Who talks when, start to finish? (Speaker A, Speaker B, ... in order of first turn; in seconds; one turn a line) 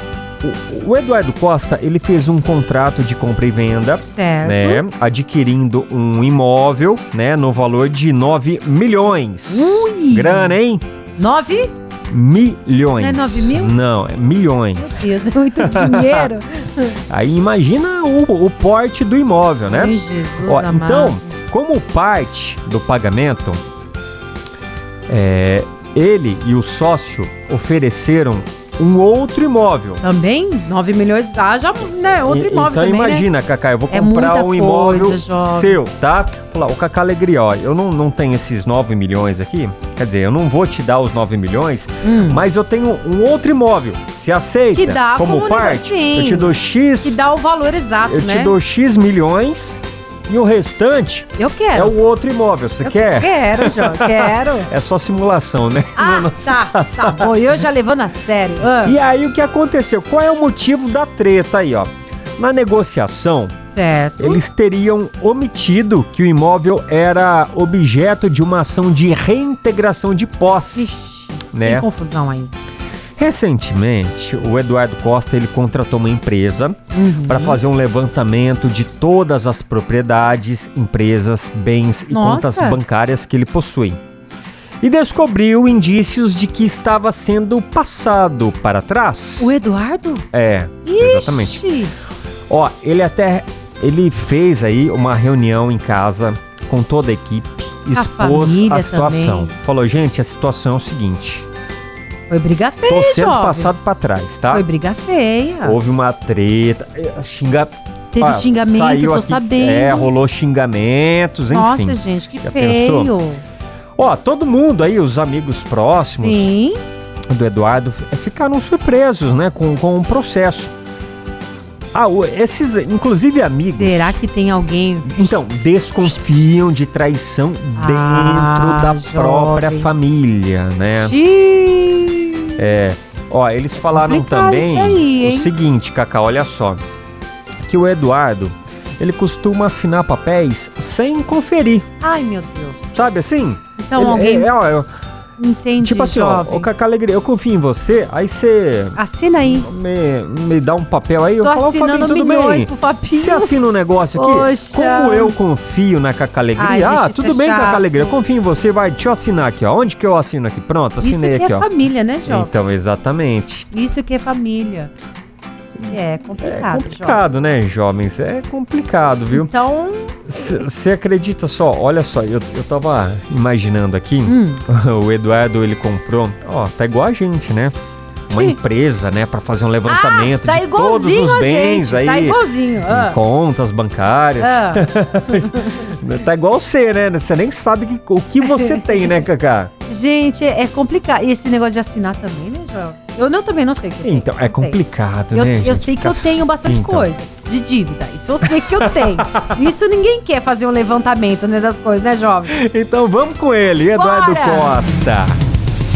Speaker A: 0.4-10.8
Speaker B: 4.1-4.8
Speaker B: 9.5-10.6
Speaker B: 11.2-11.7
Speaker A: 12.1-16.3
Speaker B: 13.0-13.7
Speaker B: 14.8-17.0
Speaker A: 17.1-23.6
Speaker B: 19.7-21.3
Speaker A: 25.1-30.0
Speaker B: 30.0-33.3
Speaker A: 32.2-47.2
Speaker B: 33.9-35.8
Speaker B: 42.0-42.5
Speaker B: 44.7-48.5
Speaker A: 48.0-57.6
Speaker B: 51.4-52.0
Speaker B: 52.8-54.7
Speaker B: 56.0-59.0
Speaker A: 58.8-63.6
Speaker B: 63.7-64.4
Speaker A: 64.2-71.0
Speaker B: 70.7-72.5
Speaker A: 71.5-71.9
Speaker A: 73.2-84.0
Speaker B: 76.9-77.6
Speaker B: 82.1-82.8
Speaker A: 84.8-89.5
Speaker B: 89.4-90.3
Speaker A: 90.3-91.7
Speaker B: 90.8-91.9
Speaker A: 92.5-101.5
Speaker B: 98.0-99.5
Speaker B: 102.3-103.7
Speaker A: 102.9-104.7
Speaker B: 104.5-105.8
Speaker A: 105.6-113.1
Speaker B: 108.1-110.1
Speaker B: 111.5-113.4
Speaker A: 114.0-116.5
Speaker B: 116.2-116.8
Speaker A: 117.3-120.7
Speaker A: 121.9-124.2
Speaker B: 123.7-125.4
Speaker A: 125.1-131.2
Speaker B: 127.8-129.9
Speaker B: 131.0-132.7
Speaker A: 132.6-136.8
Speaker B: 133.8-135.5
Speaker A: 137.7-141.9
Speaker B: 142.0-143.0
Speaker A: 142.9-144.9
Speaker B: 143.8-144.5
Speaker B: 145.4-146.7
Speaker A: 145.8-161.7
Speaker B: 148.9-149.7
Speaker B: 151.4-153.5
Speaker B: 154.1-155.4
Speaker B: 156.6-158.2
Speaker B: 161.0-162.5
Speaker A: 162.2-163.7
Speaker B: 163.7-164.9
Speaker B: 165.8-167.2
Speaker A: 166.4-169.5
Speaker B: 169.3-170.4
Speaker A: 170.2-177.8
Speaker B: 174.3-174.6
Speaker A: 178.3-189.7
Speaker B: 178.3-178.6
Speaker B: 179.8-183.2
Speaker B: 184.4-185.8
Speaker B: 188.4-189.2
Speaker B: 189.8-194.8
Speaker A: 194.0-197.1
Speaker B: 195.3-202.6
Speaker A: 198.4-199.7
Speaker A: 202.5-205.4
Speaker B: 203.9-204.9